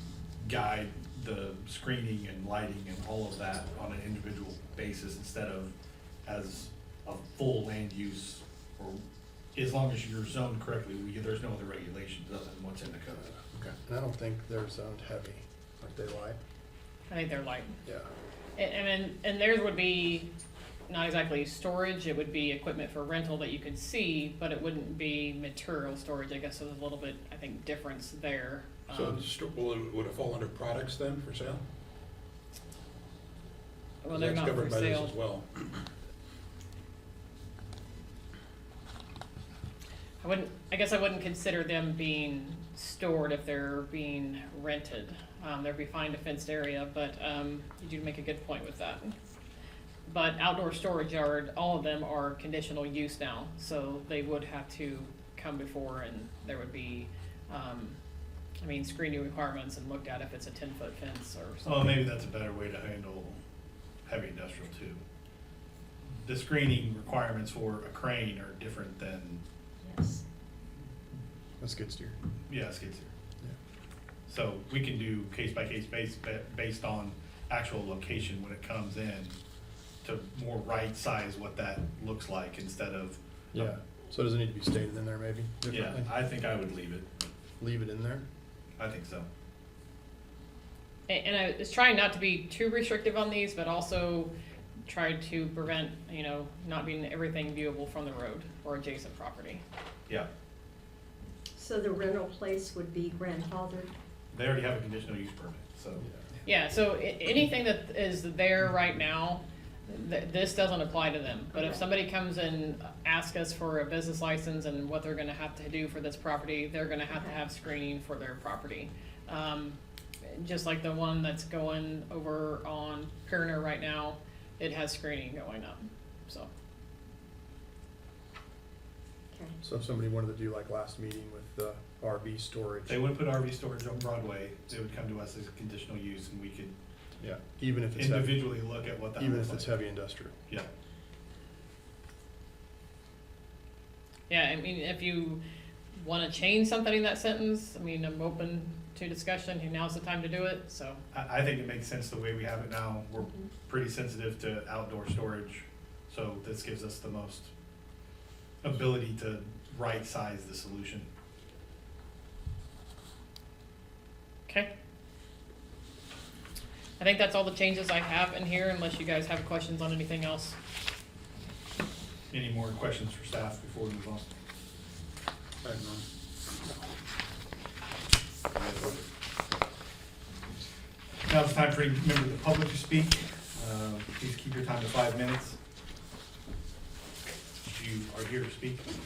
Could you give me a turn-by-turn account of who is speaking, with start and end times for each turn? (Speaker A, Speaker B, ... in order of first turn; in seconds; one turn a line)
Speaker A: 0.4-5.7
Speaker A: 6.2-9.0
Speaker A: 9.5-13.4
Speaker B: 13.5-16.4
Speaker C: 17.1-17.7
Speaker C: 18.6-20.3
Speaker C: 20.9-29.2
Speaker D: 28.9-31.6
Speaker C: 34.0-35.1
Speaker D: 34.1-35.8
Speaker C: 40.2-49.1
Speaker C: 50.0-58.0
Speaker C: 58.6-61.9
Speaker A: 61.6-63.4
Speaker A: 64.0-65.0
Speaker A: 66.2-69.4
Speaker E: 69.8-70.2
Speaker B: 71.6-72.2
Speaker A: 72.5-73.1
Speaker A: 74.3-79.4
Speaker A: 80.0-83.7
Speaker B: 83.5-86.1
Speaker A: 85.7-87.1
Speaker B: 87.6-88.2
Speaker A: 88.8-89.3
Speaker C: 91.1-94.3
Speaker C: 94.9-99.6
Speaker E: 101.5-103.9
Speaker A: 104.3-106.0
Speaker C: 106.4-126.5
Speaker E: 111.5-111.8
Speaker E: 117.1-117.4
Speaker B: 129.6-133.0
Speaker A: 132.9-136.7
Speaker B: 137.2-138.5
Speaker A: 137.9-139.7
Speaker B: 139.2-140.3
Speaker C: 144.3-145.4
Speaker C: 145.9-151.0
Speaker A: 151.1-157.5
Speaker A: 158.6-161.1
Speaker C: 167.0-170.6
Speaker A: 172.3-174.2
Speaker D: 175.6-176.0
Speaker A: 181.3-185.6
Speaker A: 187.6-188.9